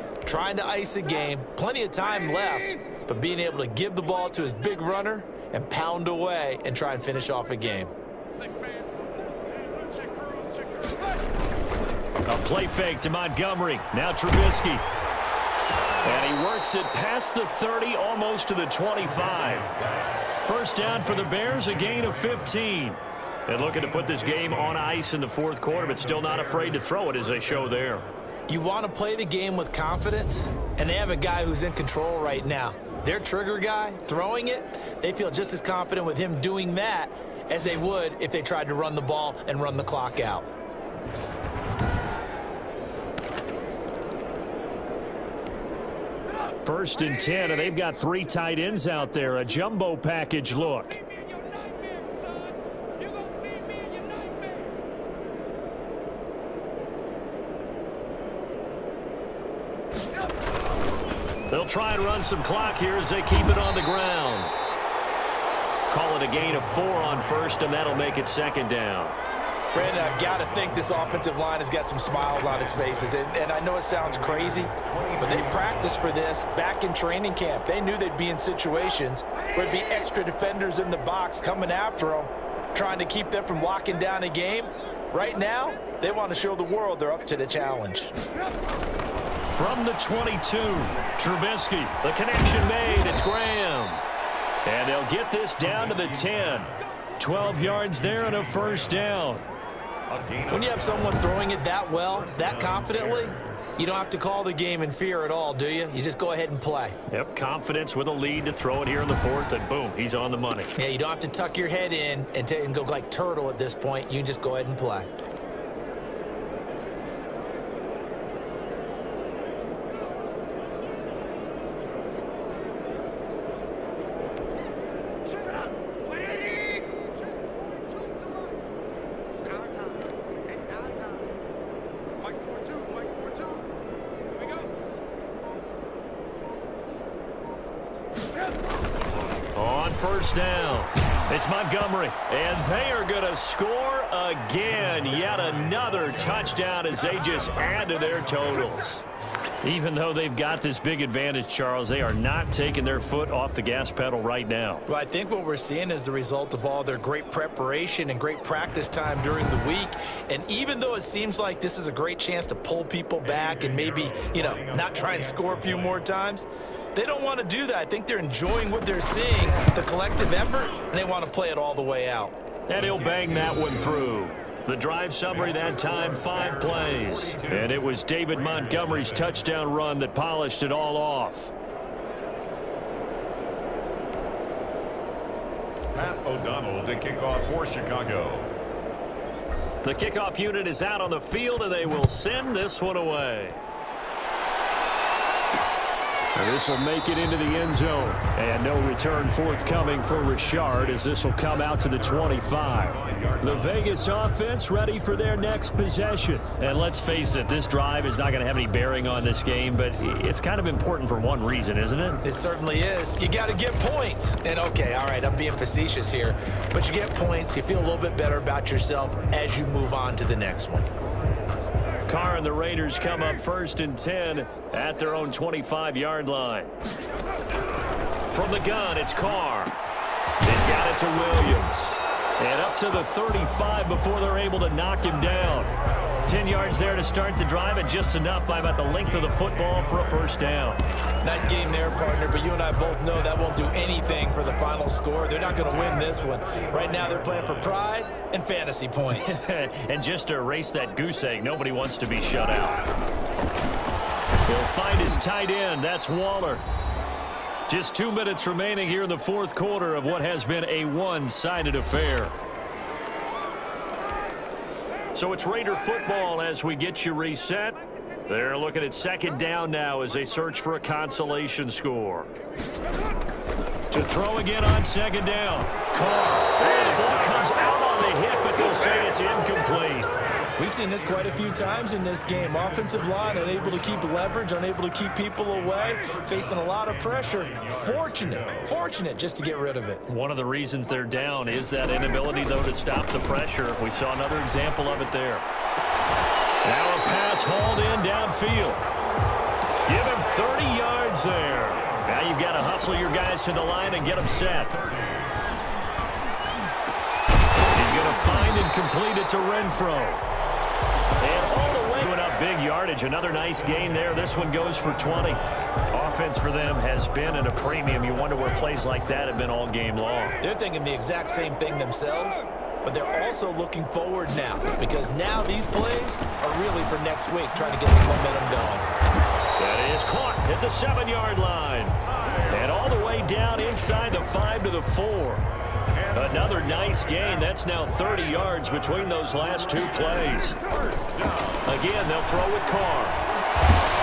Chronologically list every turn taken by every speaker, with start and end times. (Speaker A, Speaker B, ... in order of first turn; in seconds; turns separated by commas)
Speaker A: 0.2-7.9, Speaker B: 12.3-14.8, Speaker B: 16.0-19.7, Speaker C: 19.4-20.0, Speaker B: 20.4-28.0, Speaker C: 26.0-27.5, Speaker A: 28.5-40.5, Speaker B: 46.6-51.0, Speaker B: 61.5-64.5, Speaker B: 65.9-69.2, Speaker A: 69.7-88.1, Speaker C: 70.3-71.2, Speaker C: 72.4-73.2, Speaker C: 74.2-76.1, Speaker B: 89.5-94.0, Speaker B: 94.7-99.5, Speaker C: 95.6-96.9, Speaker C: 97.5-99.1, Speaker C: 100.1-101.2, Speaker A: 100.5-107.0, Speaker C: 102.1-103.7, Speaker B: 107.1-110.7, Speaker A: 110.8-115.1, Speaker B: 139.6-149.0, Speaker B: 149.6-154.8, Speaker A: 154.9-172.3, Speaker C: 163.3-166.0, Speaker B: 172.7-181.5, Speaker C: 175.3-177.8, Speaker C: 178.5-179.3, Speaker C: 185.9-188.5, Speaker B: 189.8-193.6, Speaker B: 196.3-212.2, Speaker C: 202.8-203.9, Speaker A: 212.2-220.9, Speaker B: 222.1-226.7, Speaker B: 228.3-229.7, Speaker B: 230.4-235.7, Speaker B: 236.3-240.8, Speaker C: 239.2-240.0, Speaker A: 241.2-249.4, Speaker C: 246.5-247.5, Speaker B: 249.1-252.8, Speaker B: 254.5-256.6, Speaker B: 257.7-262.4, Speaker B: 265.1-272.3, Speaker B: 273.9-280.1, Speaker A: 280.6-290.0, Speaker C: 286.1-288.7, Speaker B: 290.1-295.5, Speaker B: 296.6-298.8, Speaker B: 299.9-304.8, Speaker B: 307.7-310.2, Speaker B: 311.2-320.4, Speaker A: 320.4-328.9, Speaker B: 329.6-335.4, Speaker C: 332.1-332.5, Speaker C: 335.9-337.4, Speaker B: 336.1-340.6, Speaker C: 340.6-341.7, Speaker B: 341.6-343.2